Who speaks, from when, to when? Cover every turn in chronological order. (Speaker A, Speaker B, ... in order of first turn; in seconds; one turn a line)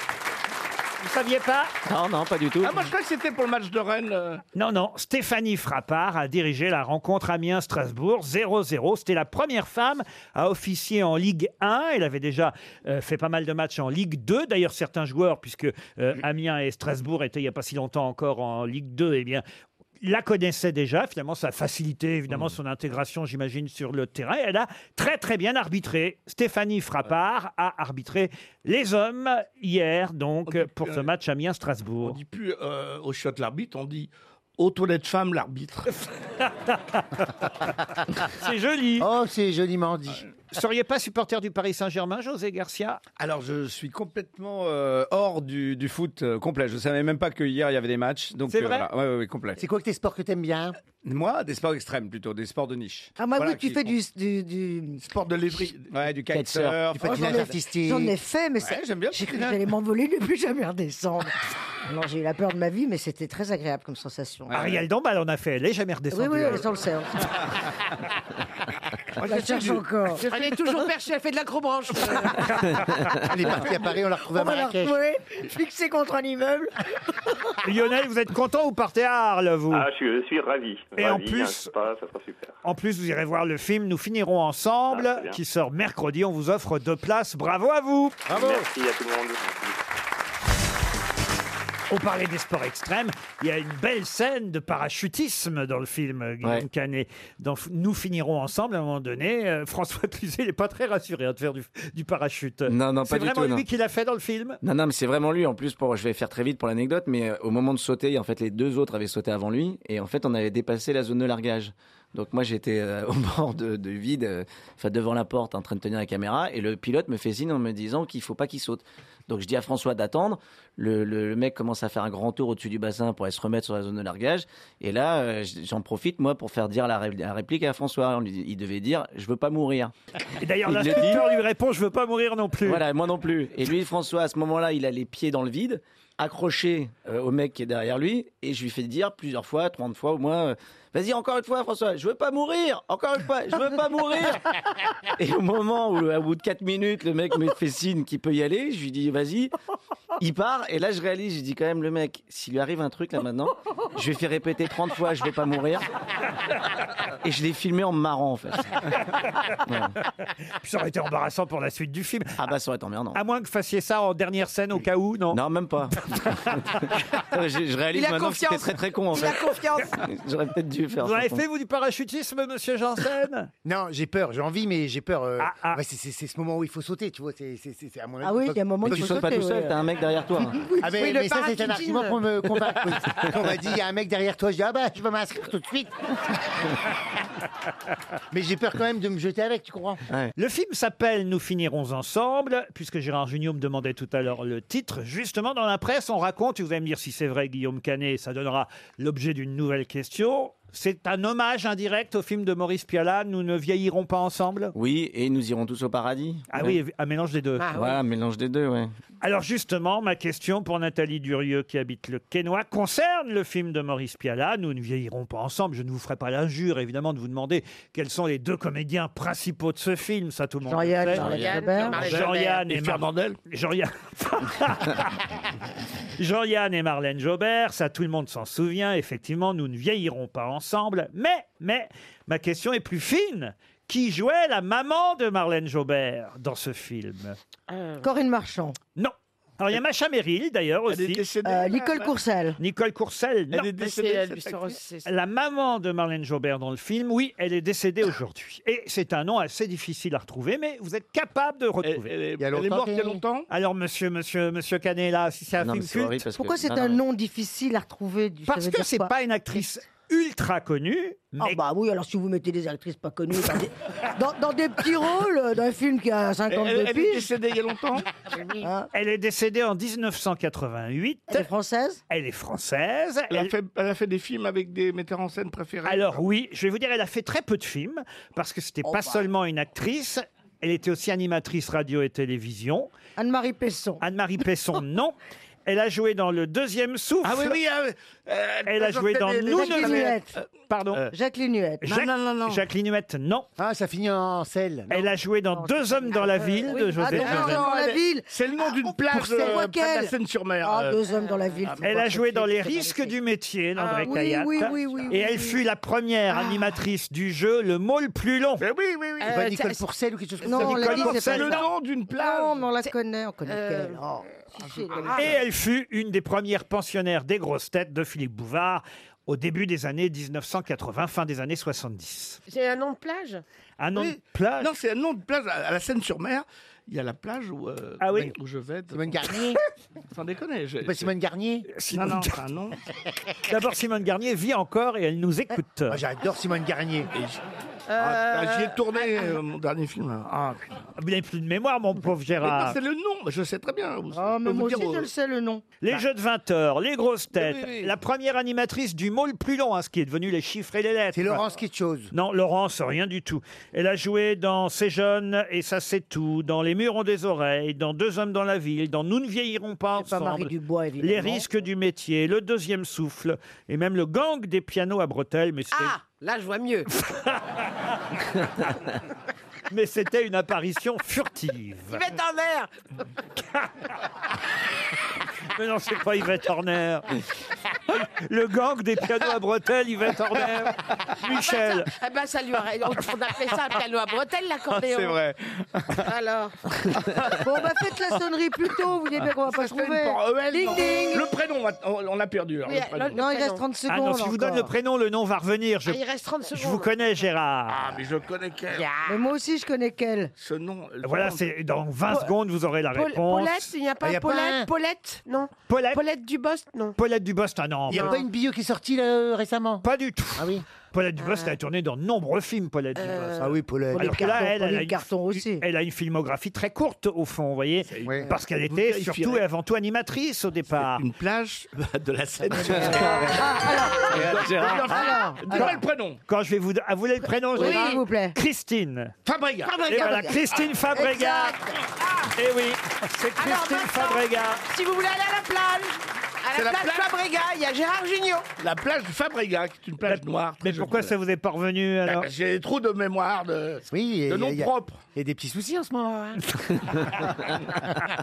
Speaker A: 1.0-1.7
Speaker B: 1.9-2.9
Speaker C: 2.6-4.4
Speaker A: 4.5-19.4
Speaker A: 20.0-32.2
Speaker C: 30.4-31.1
Speaker C: 32.0-35.9
Speaker A: 36.4-37.4
Speaker A: 38.2-39.1
Speaker D: 39.0-40.2
Speaker A: 40.5-43.0
Speaker E: 43.2-49.6
Speaker A: 48.5-48.9
Speaker D: 49.6-50.7
Speaker E: 51.0-53.9
Speaker F: 53.2-55.0
Speaker C: 55.0-56.0
Speaker E: 55.9-57.4
Speaker B: 56.3-56.8
Speaker D: 56.9-58.1
Speaker F: 57.0-61.3
Speaker E: 58.6-59.6
Speaker F: 61.9-64.5
Speaker E: 64.5-64.8
Speaker A: 64.5-66.7
Speaker F: 66.1-67.5
Speaker C: 69.2-69.8
Speaker F: 69.2-70.5
Speaker G: 70.2-72.7
Speaker D: 73.1-75.0
Speaker F: 74.3-76.7
Speaker A: 77.6-79.9
Speaker H: 79.7-82.6
Speaker A: 81.0-81.7
Speaker A: 82.6-88.2
Speaker H: 84.9-85.4
Speaker H: 88.3-89.8
Speaker E: 88.3-88.6
Speaker A: 91.9-104.6
Speaker B: 102.7-103.6
Speaker B: 104.6-129.9
Speaker A: 130.4-132.8
Speaker B: 130.7-131.3
Speaker B: 132.6-149.5
Speaker B: 150.2-155.8
Speaker B: 157.2-158.9
Speaker B: 159.7-159.9
Speaker A: 160.6-162.4
Speaker B: 162.4-163.2
Speaker A: 163.1-165.4
Speaker B: 165.3-171.4
Speaker A: 166.1-166.7
Speaker G: 167.9-170.0
Speaker A: 171.0-173.5
Speaker D: 173.6-179.2
Speaker A: 175.4-175.8
Speaker F: 178.2-179.7
Speaker B: 178.8-180.7
Speaker F: 180.4-180.9
Speaker D: 180.8-186.1
Speaker G: 180.9-182.8
Speaker D: 188.3-190.0
Speaker B: 190.1-190.3
Speaker A: 190.4-204.7
Speaker B: 204.7-206.8
Speaker A: 206.5-207.7
Speaker G: 207.6-208.0
Speaker B: 207.7-208.9
Speaker A: 209.2-221.2
Speaker F: 220.7-222.1
Speaker G: 221.3-222.6
Speaker C: 221.3-223.4
Speaker A: 222.0-225.2
Speaker A: 226.2-237.4
Speaker G: 237.7-238.1
Speaker F: 238.0-238.8
Speaker A: 239.0-241.2
Speaker C: 240.9-242.1
Speaker F: 241.4-242.6
Speaker A: 242.6-243.7
Speaker C: 243.5-244.8
Speaker G: 243.7-245.1
Speaker A: 245.1-252.1
Speaker C: 251.8-253.5
Speaker D: 252.4-253.2
Speaker A: 253.5-256.2
Speaker B: 255.6-257.0
Speaker F: 256.3-259.1
Speaker A: 258.5-261.6
Speaker F: 261.4-267.3
Speaker C: 266.5-268.1
Speaker F: 268.6-268.9
Speaker A: 268.9-271.5
Speaker F: 271.3-272.0
Speaker A: 272.1-273.5
Speaker C: 273.3-276.2
Speaker A: 275.8-282.9
Speaker F: 283.2-284.0
Speaker A: 284.0-287.6
Speaker C: 287.2-291.1
Speaker A: 288.6-290.1
Speaker F: 289.5-290.3
Speaker A: 290.7-291.0
Speaker F: 291.1-291.9
Speaker A: 291.8-293.5
Speaker C: 291.9-292.6
Speaker D: 293.6-295.1
Speaker A: 294.9-297.7
Speaker F: 295.5-298.2
Speaker G: 296.2-297.1
Speaker C: 297.1-301.0
Speaker F: 299.1-302.6
Speaker G: 301.1-301.8
Speaker A: 301.8-308.6
Speaker G: 302.4-303.1
Speaker G: 303.8-305.2
Speaker F: 304.0-305.6
Speaker G: 306.3-306.7
Speaker C: 308.6-309.4
Speaker G: 309.2-309.8
Speaker D: 309.3-311.4
Speaker F: 310.4-315.2
Speaker A: 310.6-311.6
Speaker C: 310.6-312.6
Speaker G: 313.4-314.0
Speaker G: 314.9-315.3
Speaker C: 314.9-315.3
Speaker A: 315.1-322.4
Speaker G: 322.5-323.4
Speaker A: 323.8-324.7
Speaker C: 324.6-329.3
Speaker A: 328.0-328.3
Speaker D: 328.9-329.6
Speaker C: 330.1-331.1
Speaker D: 330.8-331.7
Speaker A: 331.7-332.4
Speaker C: 331.9-332.8
Speaker A: 333.4-336.0
Speaker D: 335.9-337.1
Speaker C: 337.1-337.4
Speaker G: 337.9-339.3
Speaker C: 337.9-340.8
Speaker A: 341.0-342.8
Speaker C: 342.4-345.1
Speaker F: 344.1-345.6
Speaker A: 345.8-351.4
Speaker C: 347.4-347.9
Speaker D: 351.1-352.1
Speaker A: 352.1-366.0
Speaker F: 360.0-361.4
Speaker G: 365.7-366.9
Speaker A: 367.1-367.4
Speaker A: 369.7-372.0
Speaker G: 371.9-372.7
Speaker A: 375.5-377.1
Speaker A: 378.0-381.9
Speaker G: 381.2-385.2
Speaker E: 384.7-386.1
Speaker G: 386.0-386.6
Speaker E: 387.1-387.4
Speaker F: 387.4-391.3
Speaker C: 389.4-393.2
Speaker G: 392.6-393.6
Speaker F: 393.1-394.7
Speaker A: 393.9-396.0
Speaker G: 395.9-396.9
Speaker A: 396.5-397.9
Speaker C: 397.7-398.9
Speaker G: 398.7-399.2
Speaker F: 399.1-400.3
Speaker C: 400.4-401.4
Speaker A: 401.0-403.7
Speaker G: 402.9-407.0
Speaker D: 404.0-404.7
Speaker A: 405.7-406.0
Speaker A: 407.0-408.2
Speaker D: 407.9-409.9
Speaker G: 407.9-408.2
Speaker A: 409.8-421.0
Speaker D: 410.4-410.6
Speaker G: 411.2-411.5
Speaker G: 412.9-413.5
Speaker D: 413.4-414.3
Speaker F: 413.9-415.6
Speaker C: 417.9-419.4
Speaker C: 420.7-426.2
Speaker B: 422.8-423.4
Speaker F: 423.2-425.8
Speaker B: 424.4-424.9
Speaker A: 425.5-429.1
Speaker F: 427.5-428.3
Speaker G: 427.6-428.0
Speaker C: 429.2-429.9
Speaker F: 429.6-430.4
Speaker A: 429.9-431.6
Speaker F: 430.9-431.6
Speaker A: 432.3-434.6
Speaker G: 433.4-438.5
Speaker C: 436.5-437.0
Speaker C: 438.6-441.1
Speaker A: 440.1-442.3
Speaker C: 442.0-445.0
Speaker D: 443.9-446.4